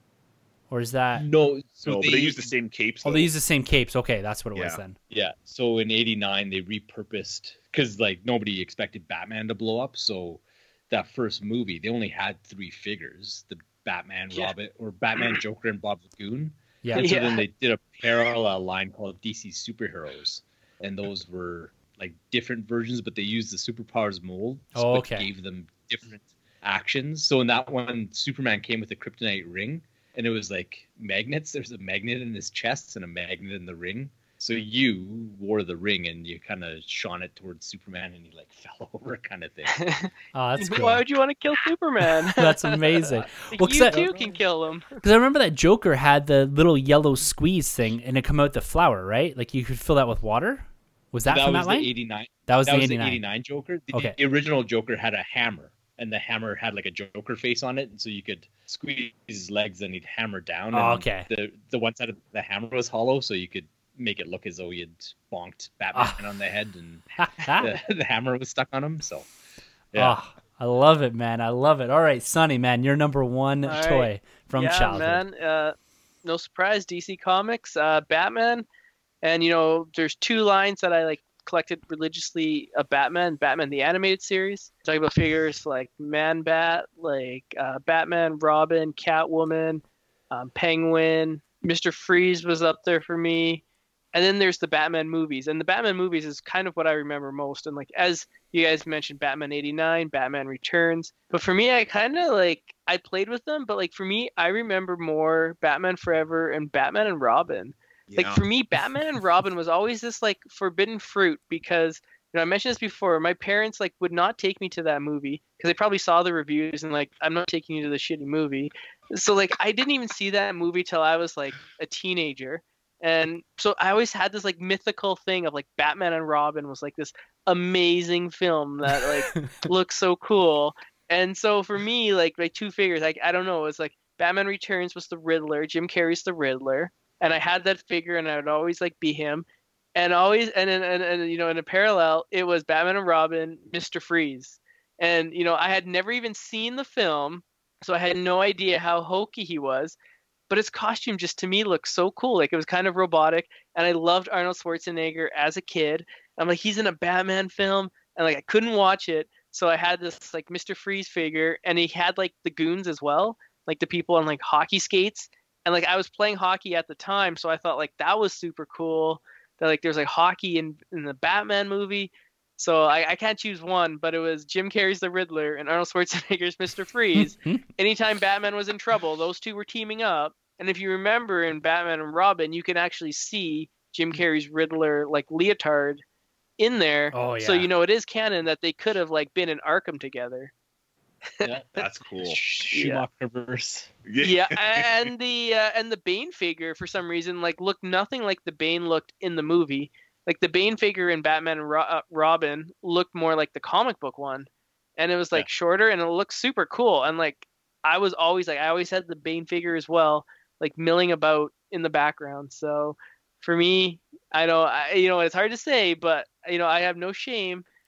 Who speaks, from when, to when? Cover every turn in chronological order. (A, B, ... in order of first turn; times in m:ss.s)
0:00.7-0:01.2 A
0:01.1-0:02.5 B
0:01.8-0:03.3 C
0:03.0-0:05.0 A
0:04.5-0:04.8 C
0:05.1-0:39.9 B
0:16.9-0:17.4 D
0:24.7-0:25.3 A
0:39.7-0:45.0 D
0:40.3-0:41.0 A
0:42.3-0:44.1 A
0:43.8-0:44.4 B
0:45.0-0:51.9 A
0:51.2-1:09.3 B
0:52.5-0:53.2 A
1:00.7-1:01.3 A
1:05.9-1:06.2 A
1:07.2-1:07.7 A
1:09.9-1:10.2 B
1:10.0-1:15.2 A
1:13.6-1:18.6 D
1:19.2-2:30.0 D
1:48.1-1:48.4 C
2:30.5-3:06.0 D
2:57.2-2:57.6 A
3:06.6-3:10.5 D
3:07.1-3:07.7 A
3:11.4-3:11.7 B
3:11.8-3:12.4 C
3:12.2-3:13.9 B
3:12.7-3:13.0 D
3:14.0-3:15.1 C
3:14.2-3:37.6 D